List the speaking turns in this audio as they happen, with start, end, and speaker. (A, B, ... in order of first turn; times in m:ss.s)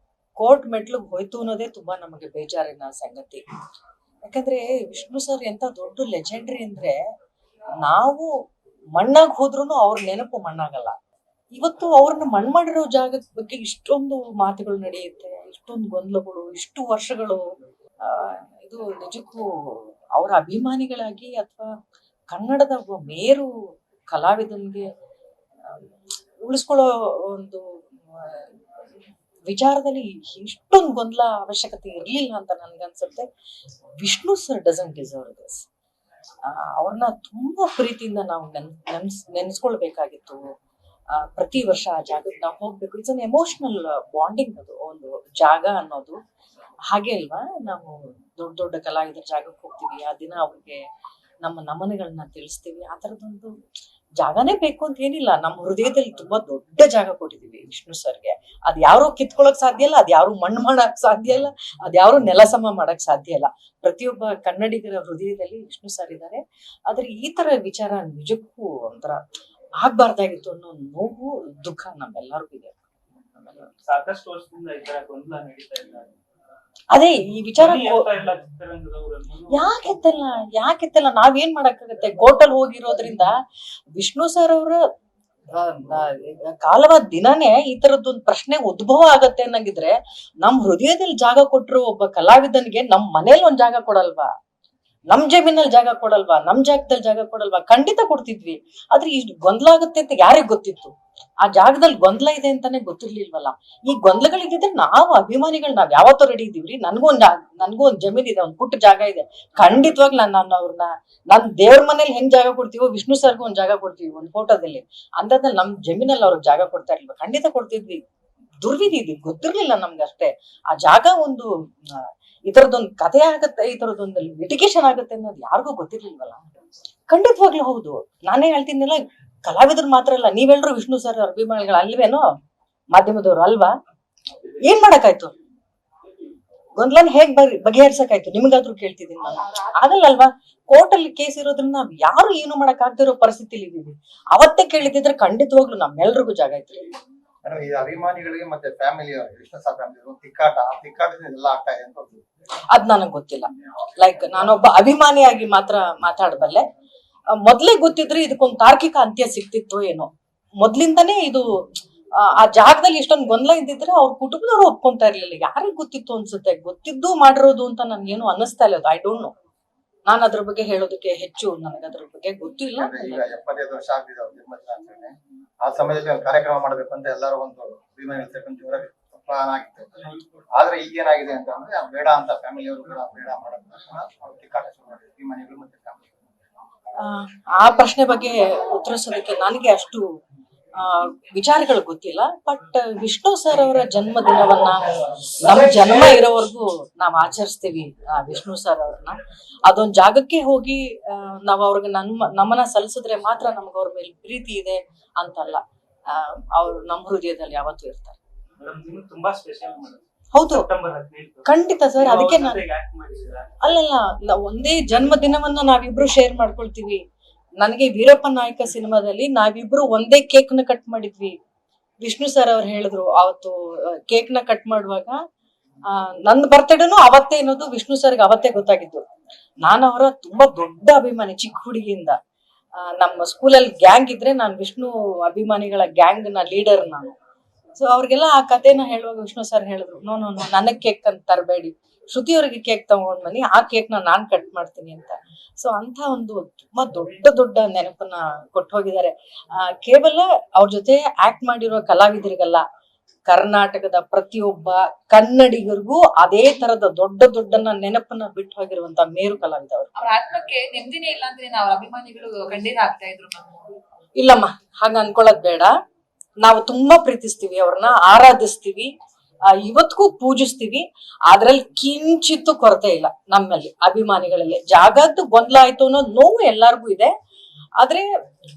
0:00.4-0:03.4 A
0:04.3-0:07.0 A
0:07.8-0:08.3 A
0:09.0-0:11.0 A
0:11.6-0:17.4 A
0:18.0-0:21.7 A
0:22.3-0:23.5 A
0:24.1-0:24.9 A
0:26.4-0:28.5 A
0:29.5-0:33.3 A
0:34.0-0:35.7 A
0:36.4-0:40.4 A
0:41.1-0:46.2 A
0:46.9-0:50.8 A
0:51.4-0:53.5 A
0:54.2-1:09.2 A
1:09.8-1:12.8 A
1:13.4-1:13.7 A
1:13.8-1:16.1 B
1:16.9-1:18.1 A
1:17.6-1:19.7 B
1:19.5-1:23.3 A
1:24.0-1:24.8 A
1:25.5-1:34.3 A
1:35.1-1:58.0 A
1:58.6-2:06.4 A
2:07.1-2:12.3 A
2:12.9-2:13.7 A
2:14.6-2:15.3 A
2:16.8-2:26.9 A
2:27.4-2:32.2 C
2:32.7-2:36.6 A
2:37.4-2:40.1 A
2:40.6-2:41.5 A
2:42.2-2:49.3 A
2:50.1-2:53.2 A
2:52.8-3:06.3 C
3:07.0-3:10.0 A
3:10.8-3:28.2 A
3:28.6-3:33.5 B
3:30.3-3:30.7 A
3:31.4-3:32.6 A
3:33.6-3:37.0 A
3:37.6-3:41.4 A
3:42.0-3:45.2 A
3:45.9-3:49.0 A
3:49.6-3:52.2 A
3:52.8-3:57.1 A
3:57.8-4:12.6 A
4:13.3-4:19.9 A
4:20.0-4:23.7 D
4:24.2-4:25.7 A
4:26.4-4:28.9 A
4:29.5-4:37.1 A
4:37.8-4:38.1 A